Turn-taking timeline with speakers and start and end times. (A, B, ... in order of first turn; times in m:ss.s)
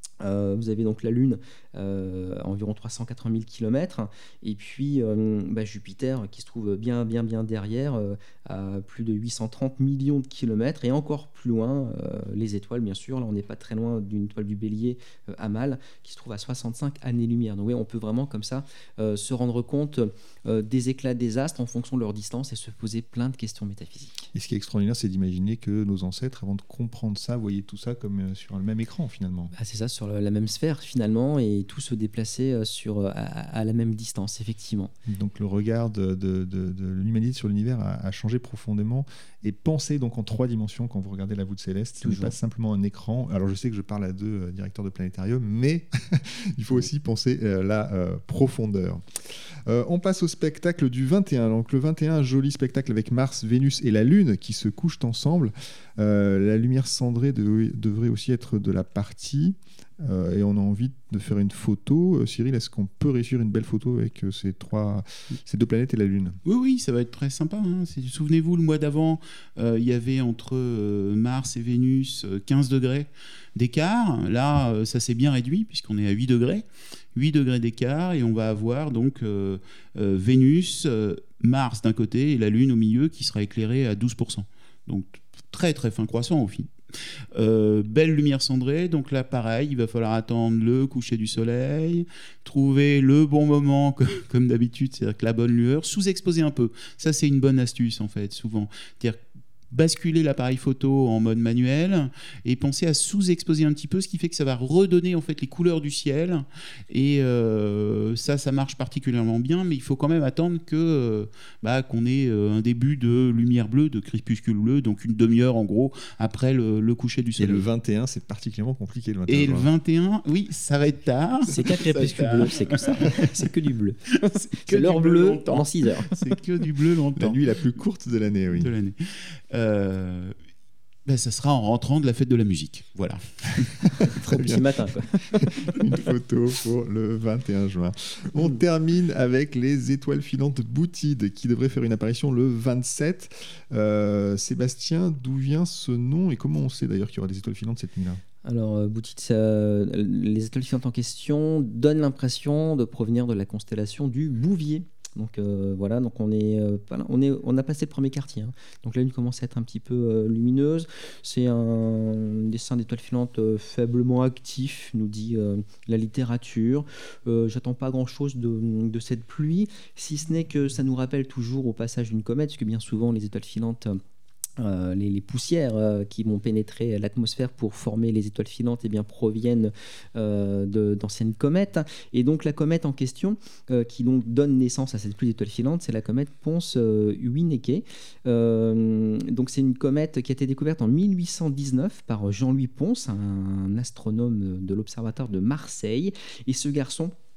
0:00.2-0:24.2 A
0:24.3-0:29.5 B
0:29.5-0:34.9 A
0:35.1-0:49.0 B
0:42.0-0:42.3 A
0:49.6-1:06.4 B
1:06.4-1:26.7 C
1:27.3-1:39.2 C
1:39.7-1:57.6 C
1:57.4-1:59.7 B
1:59.3-2:03.5 C
2:01.5-2:06.2 A
2:04.2-2:07.5 C
2:07.2-2:08.7 B
2:08.5-2:10.3 C
2:11.0-2:13.9 C
2:14.0-2:15.7 A
2:15.3-2:28.2 B
2:28.4-2:54.0 A
2:54.6-3:17.1 A